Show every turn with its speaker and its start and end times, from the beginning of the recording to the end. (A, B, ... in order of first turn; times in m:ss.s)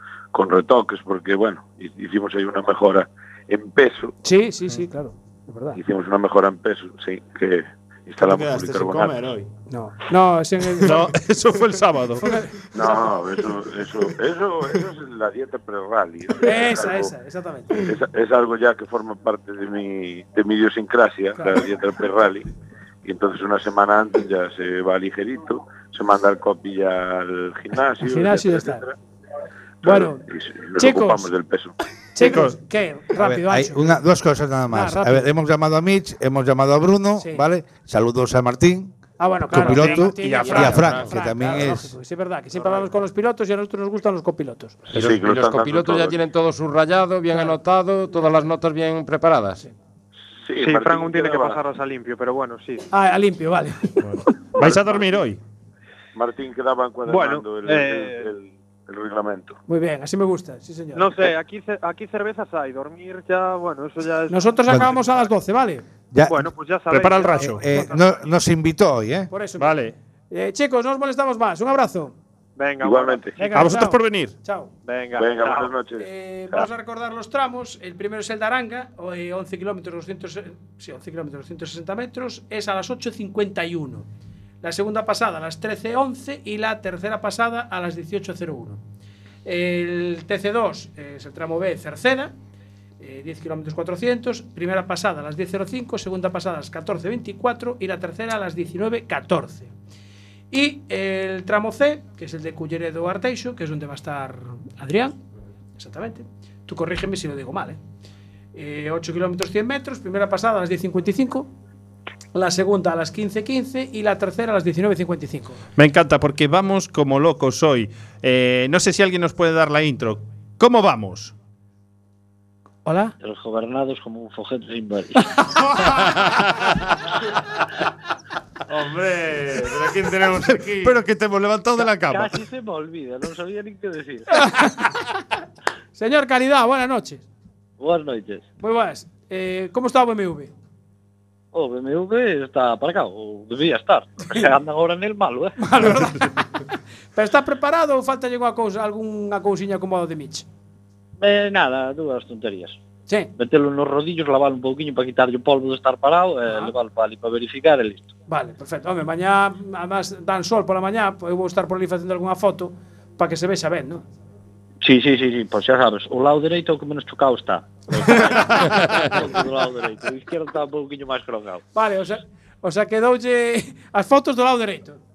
0:00.3-0:04.1 A
0:04.2-0:05.8 B
0:05.7-0:09.2 A
0:08.2-0:09.5 C
0:09.7-0:11.0 B
0:10.8-0:12.3 D
0:10.8-0:11.1 C
0:12.2-0:12.6 B
0:12.7-0:17.1 A
0:12.7-0:13.4 C
0:16.4-0:17.8 B
0:17.9-0:22.5 A
0:21.3-0:21.7 B
0:23.0-0:28.9 A
0:28.0-0:28.8 B
0:29.8-0:30.2 B
0:29.8-0:31.7 A
0:30.8-0:31.3 B
0:32.1-0:34.0 B
0:32.2-0:32.6 D
0:33.2-0:38.9 E
0:34.7-0:35.3 B
0:37.2-0:37.4 B
0:39.2-0:44.8 B
0:39.5-0:41.9 E
0:39.7-0:41.1 D
0:40.2-0:41.1 F
0:44.9-0:46.2 A
0:44.9-0:49.6 F
0:47.3-0:47.6 B
0:50.4-0:51.6 A
0:50.6-0:52.9 G
0:52.9-0:54.2 B
0:54.0-0:55.4 D
0:54.6-0:55.2 A
0:56.1-0:59.6 A
0:57.1-0:58.3 G
0:59.7-1:01.2 B
1:00.9-1:05.3 G
1:04.3-1:05.8 B
1:06.1-1:06.5 E
1:06.2-1:08.1 G
1:06.9-1:07.6 D
1:07.4-1:09.3 E
1:07.5-1:08.0 B
1:09.3-1:12.1 B
1:09.6-1:09.9 D
1:12.6-1:13.7 G
1:12.8-1:13.4 A
1:13.4-1:14.7 B
1:13.5-1:14.3 D
1:14.8-1:15.7 G
1:15.2-1:16.7 A
1:16.0-1:24.0 B
1:24.6-1:28.8 B
1:29.4-1:32.3 B
1:33.0-1:39.7 B
1:40.5-1:45.2 B
1:45.8-1:47.8 B
1:48.5-1:51.5 B
1:52.3-1:55.6 B
1:55.8-2:01.3 D
2:02.8-2:03.1 B
2:03.2-2:05.4 H
2:08.7-2:11.3 C
2:10.8-2:12.3 D
2:11.8-2:14.3 H
2:14.3-2:15.2 B
2:16.0-2:17.2 B
2:17.8-2:18.4 H
2:18.6-2:20.5 B
2:21.5-2:25.9 H
2:25.6-2:30.4 B
2:31.2-2:32.8 H
2:33.4-2:38.1 H
2:38.3-2:44.0 B
2:44.8-2:51.6 H
2:48.4-2:48.8 C
2:51.7-2:55.0 B